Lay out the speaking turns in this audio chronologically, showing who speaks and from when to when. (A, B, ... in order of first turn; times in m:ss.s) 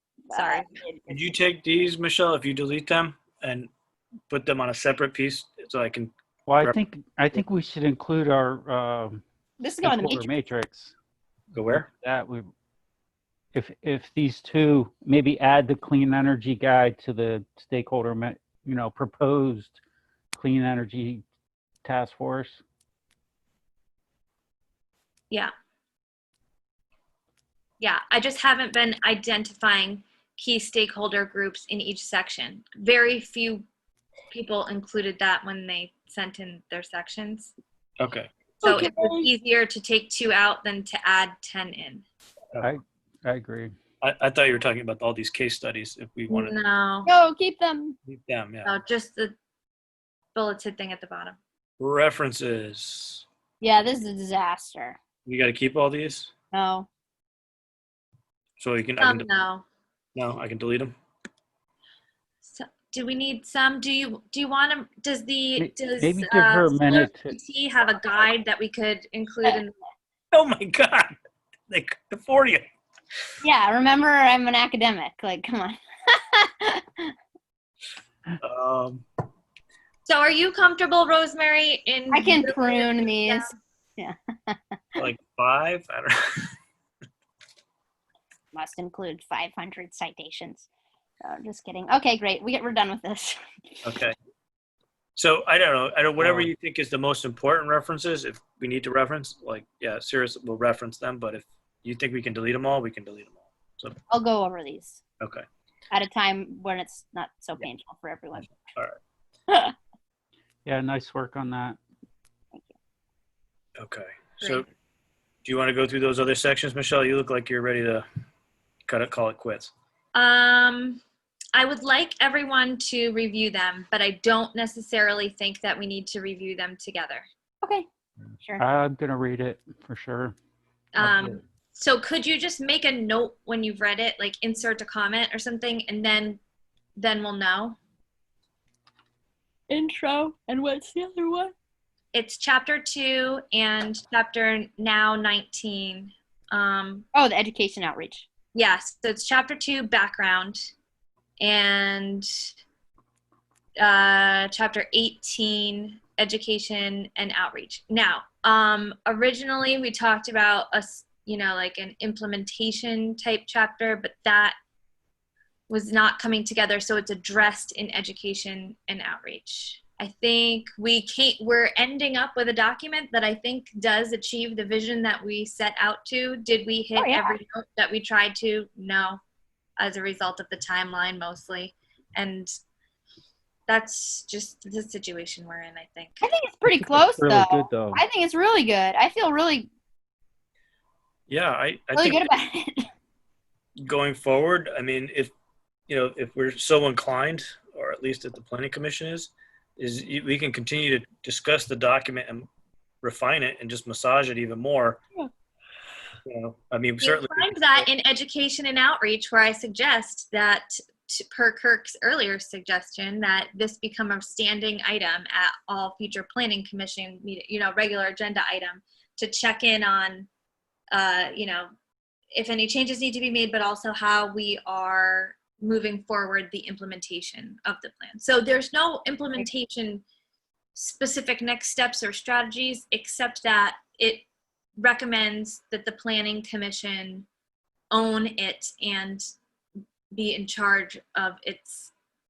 0:00.3-0:01.2 A
0:00.3-0:00.8 B
0:01.1-0:03.7 C
0:04.3-0:06.8 C
0:06.5-0:09.2 D
0:09.6-0:10.3 A
0:09.8-0:10.9 D
0:11.5-0:11.9 C
0:11.9-0:12.5 D
0:13.5-0:19.8 D
0:20.3-0:21.2 D
0:21.8-0:22.6 D
0:27.8-0:33.6 B
0:34.3-0:37.5 B
0:38.0-0:38.3 C
0:38.6-0:39.3 A
0:38.6-0:42.0 B
0:42.6-0:43.7 D
0:44.0-0:46.6 C
0:46.3-0:47.1 B
0:47.0-0:48.0 A
0:48.0-0:48.7 C
0:48.6-0:49.3 B
0:50.3-0:51.4 B
0:51.8-0:53.2 C
0:53.6-0:55.0 A
0:55.2-0:56.3 C
0:56.5-0:56.9 A
0:58.6-0:59.3 C
0:59.0-0:59.6 B
1:00.1-1:00.9 C
1:02.4-1:09.7 B
1:05.6-1:07.3 D
1:10.3-1:11.2 C
1:11.7-1:12.6 C
1:13.4-1:17.1 A
1:18.4-1:19.0 C
1:20.0-1:23.5 B
1:22.1-1:25.0 A
1:25.0-1:26.5 C
1:28.5-1:30.7 A
1:31.2-1:33.8 A
1:33.8-1:34.1 C
1:35.2-1:44.0 C
1:36.2-1:36.5 D
1:44.1-1:45.0 A
1:45.2-1:45.4 C
1:45.9-1:48.5 A
1:48.6-1:49.0 C
1:49.5-1:49.7 A
1:50.6-1:51.8 D
1:53.8-1:54.6 C
1:54.4-1:54.7 B
1:55.4-1:58.0 C
1:58.9-1:59.7 C
2:00.1-2:01.0 B
2:01.5-2:07.2 B
2:07.6-2:07.9 A
2:08.6-2:10.3 D
2:10.9-2:16.4 B
2:11.0-2:11.4 D
2:17.0-2:17.8 B
2:19.7-2:21.5 A
2:22.1-2:27.1 B
2:27.1-2:28.3 A
2:28.5-2:30.7 B
2:31.4-2:32.4 B
2:33.8-2:44.6 B
2:45.7-2:59.2 B
2:57.0-2:57.3 A
2:59.8-3:02.5 B
3:03.7-3:06.2 B
3:06.2-3:09.7 A
3:06.7-3:08.0 D
3:11.3-3:12.3 C
3:11.9-3:12.9 A
3:13.8-3:15.3 C
3:15.9-3:22.5 C
3:23.0-3:25.0 C
3:26.2-3:27.9 C
3:27.0-3:40.3 B
3:40.9-3:41.7 B
3:42.3-3:50.0 B
3:50.7-3:54.2 B
3:54.8-3:57.3 B
3:57.9-3:59.3 B
4:00.1-4:01.9 B